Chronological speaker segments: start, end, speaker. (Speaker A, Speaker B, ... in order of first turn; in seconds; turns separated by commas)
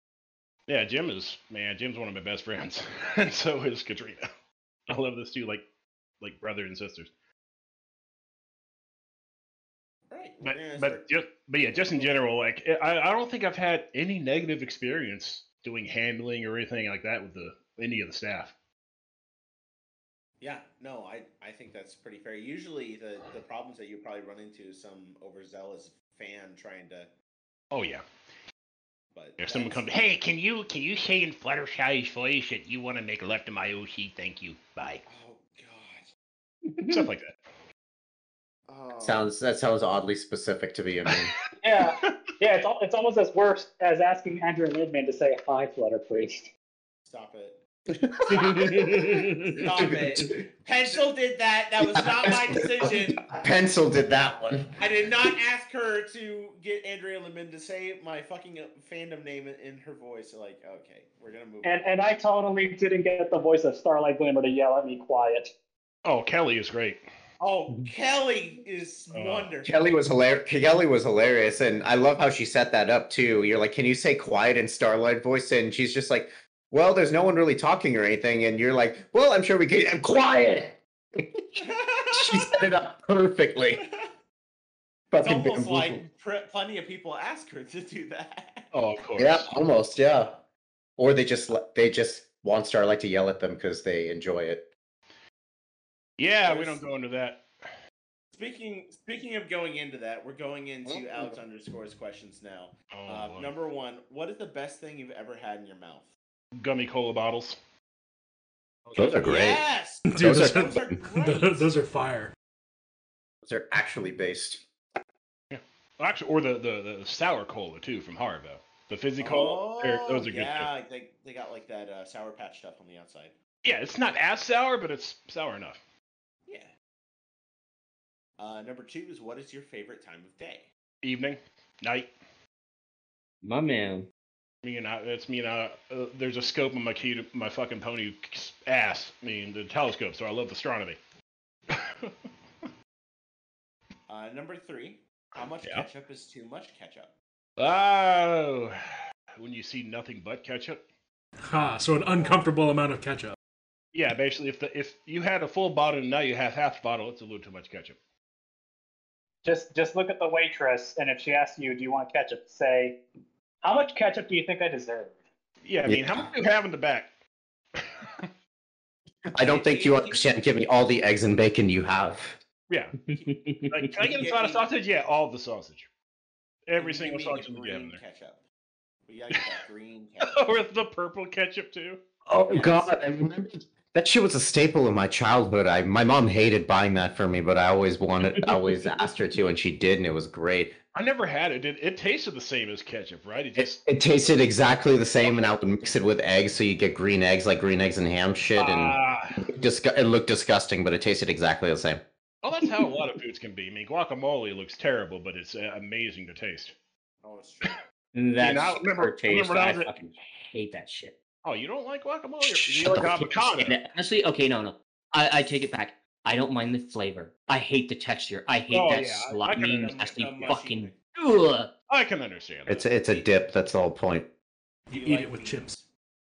Speaker A: 0.7-4.2, Speaker A: 4.9-5.6, Speaker A: 6.2-7.1, Speaker B: 10.1-11.0, Speaker A: 10.4-18.5, Speaker B: 11.7-12.1, Speaker B: 20.4-27.1, Speaker A: 27.7-28.0, Speaker B: 29.1-29.9, Speaker A: 29.4-35.0, Speaker B: 35.1-36.1, Speaker C: 36.8-37.0, Speaker A: 36.9-37.3, Speaker B: 38.7-39.3, Speaker D: 39.0-41.3, Speaker E: 41.6-46.5, Speaker B: 47.0-47.6, Speaker B: 48.3-48.8, Speaker D: 48.3-48.9, Speaker C: 48.3-49.6, Speaker B: 49.6-53.2, Speaker D: 49.8-50.2, Speaker D: 51.9-54.7, Speaker B: 54.8-61.7, Speaker E: 61.6-65.5, Speaker A: 66.0-67.0, Speaker B: 67.4-69.7, Speaker A: 69.1-69.5, Speaker D: 69.6-83.8, Speaker B: 81.6-82.5, Speaker B: 83.8-84.1, Speaker D: 85.1-86.0, Speaker B: 85.2-88.7, Speaker A: 88.7-89.5, Speaker D: 89.2-90.4, Speaker D: 91.0-94.7, Speaker A: 96.2-97.4, Speaker B: 96.4-96.8, Speaker B: 98.3-106.1, Speaker D: 100.9-101.3, Speaker A: 102.9-103.5, Speaker A: 106.6-107.6, Speaker D: 108.9-109.6, Speaker B: 109.1-111.7, Speaker F: 110.1-112.3, Speaker D: 110.2-110.9, Speaker D: 113.4-114.6, Speaker A: 115.5-120.7, Speaker B: 119.2-123.3, Speaker A: 123.6-125.8, Speaker B: 126.5-126.7, Speaker B: 128.4-130.7, Speaker A: 131.0-132.1, Speaker C: 133.4-134.1, Speaker A: 134.6-141.0, Speaker A: 141.7-142.1, Speaker B: 144.1-147.1, Speaker A: 147.6-150.8, Speaker F: 151.5-153.3, Speaker B: 152.1-152.4, Speaker A: 153.9-158.0, Speaker E: 159.4-163.0, Speaker E: 163.6-165.2, Speaker A: 165.6-167.1, Speaker D: 165.8-166.3, Speaker A: 167.8-168.2, Speaker D: 169.3-172.4, Speaker B: 169.4-170.2, Speaker A: 172.7-172.9, Speaker C: 173.1-173.9, Speaker A: 173.7-175.9, Speaker B: 174.0-174.6, Speaker A: 176.7-178.0, Speaker B: 176.8-178.4, Speaker B: 179.1-180.4, Speaker A: 180.3-182.0, Speaker D: 182.2-190.7, Speaker B: 182.5-182.9, Speaker A: 190.9-193.8, Speaker D: 193.6-198.9, Speaker A: 195.2-195.5, Speaker A: 198.6-199.4, Speaker D: 199.5-202.0, Speaker A: 202.4-206.7, Speaker B: 207.2-207.8, Speaker C: 208.1-211.1, Speaker A: 208.4-209.9, Speaker A: 211.4-213.8, Speaker D: 212.6-213.1, Speaker C: 212.9-221.7, Speaker A: 218.7-220.6, Speaker B: 219.7-220.9, Speaker A: 221.9-222.9, Speaker D: 222.7-224.3, Speaker F: 224.9-225.7, Speaker B: 224.9-225.9